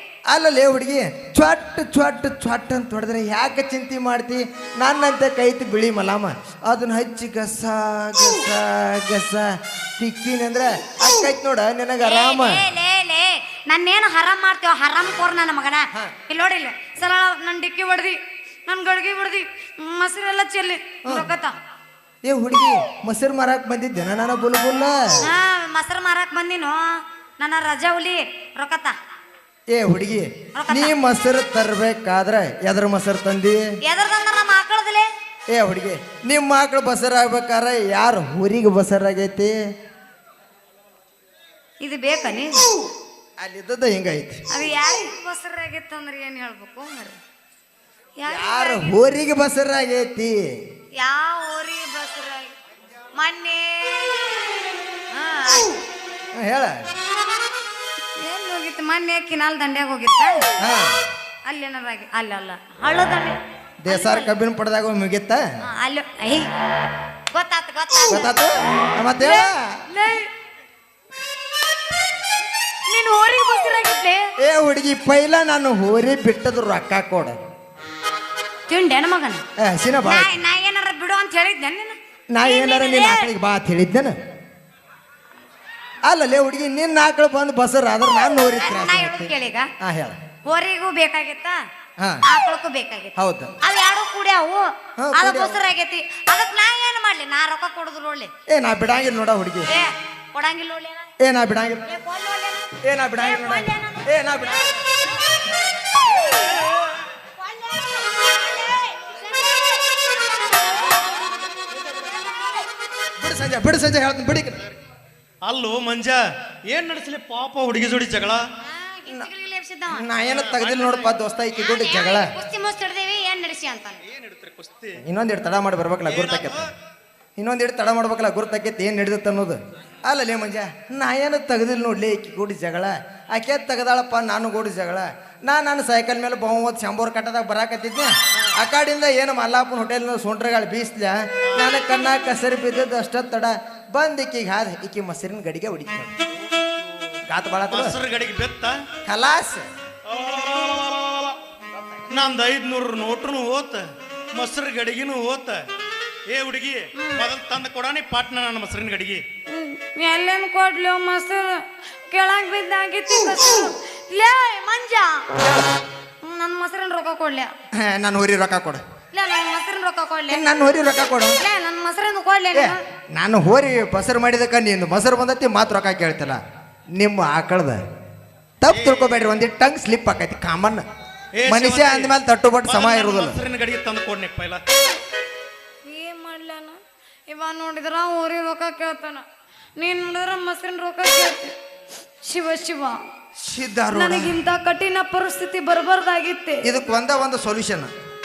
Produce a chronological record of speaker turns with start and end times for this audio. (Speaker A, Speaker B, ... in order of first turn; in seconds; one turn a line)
Speaker A: 0.3-12.6
Speaker B: 12.0-21.5
Speaker A: 22.2-25.0
Speaker B: 25.3-26.8
Speaker B: 27.4-28.9
Speaker A: 29.7-33.6
Speaker B: 30.6-30.9
Speaker B: 33.9-35.1
Speaker A: 35.5-39.5
Speaker B: 41.8-42.6
Speaker A: 43.4-44.4
Speaker B: 44.5-47.2
Speaker B: 48.2-48.9
Speaker A: 48.2-50.4
Speaker B: 51.0-52.5
Speaker B: 53.1-54.4
Speaker B: 55.1-55.8
Speaker A: 56.3-56.8
Speaker B: 58.2-60.4
Speaker A: 60.6-61.0
Speaker B: 61.5-64.3
Speaker A: 63.8-65.4
Speaker B: 65.7-66.5
Speaker B: 67.3-68.3
Speaker A: 68.1-69.7
Speaker B: 69.2-70.3
Speaker B: 72.9-74.3
Speaker A: 74.4-77.3
Speaker B: 78.7-79.4
Speaker A: 79.6-80.3
Speaker B: 80.0-83.3
Speaker A: 82.3-84.1
Speaker A: 86.0-89.3
Speaker B: 88.3-89.7
Speaker A: 89.8-90.2
Speaker B: 90.5-91.5
Speaker B: 92.3-98.3
Speaker A: 93.2-93.5
Speaker A: 95.0-95.6
Speaker A: 98.5-99.7
Speaker B: 99.7-101.1
Speaker A: 101.2-101.8
Speaker B: 101.8-105.0
Speaker A: 102.8-104.7
Speaker B: 106.1-106.6
Speaker B: 107.4-111.1
Speaker B: 111.8-112.5
Speaker A: 113.2-114.7
Speaker C: 115.4-118.4
Speaker B: 118.7-120.0
Speaker A: 119.9-122.3
Speaker C: 120.2-121.1
Speaker B: 121.6-124.0
Speaker C: 124.0-125.0
Speaker A: 125.0-126.6
Speaker C: 126.1-126.7
Speaker A: 127.4-146.1
Speaker A: 147.3-147.9
Speaker C: 147.7-148.8
Speaker A: 149.1-149.7
Speaker C: 150.1-151.3
Speaker C: 152.1-155.6
Speaker C: 156.3-159.2
Speaker B: 157.0-157.3
Speaker B: 159.5-165.2
Speaker B: 166.2-167.5
Speaker A: 167.8-168.8
Speaker B: 169.1-170.4
Speaker A: 170.3-171.4
Speaker B: 171.4-172.8
Speaker A: 172.5-176.4
Speaker A: 176.9-177.8
Speaker A: 178.6-180.8
Speaker C: 178.7-179.0
Speaker C: 181.3-182.1
Speaker A: 181.5-183.4
Speaker C: 182.6-184.6
Speaker B: 185.8-186.8
Speaker B: 187.3-189.2
Speaker B: 189.8-191.5
Speaker B: 192.2-193.0
Speaker A: 193.4-194.4
Speaker B: 193.9-196.6
Speaker A: 196.6-197.9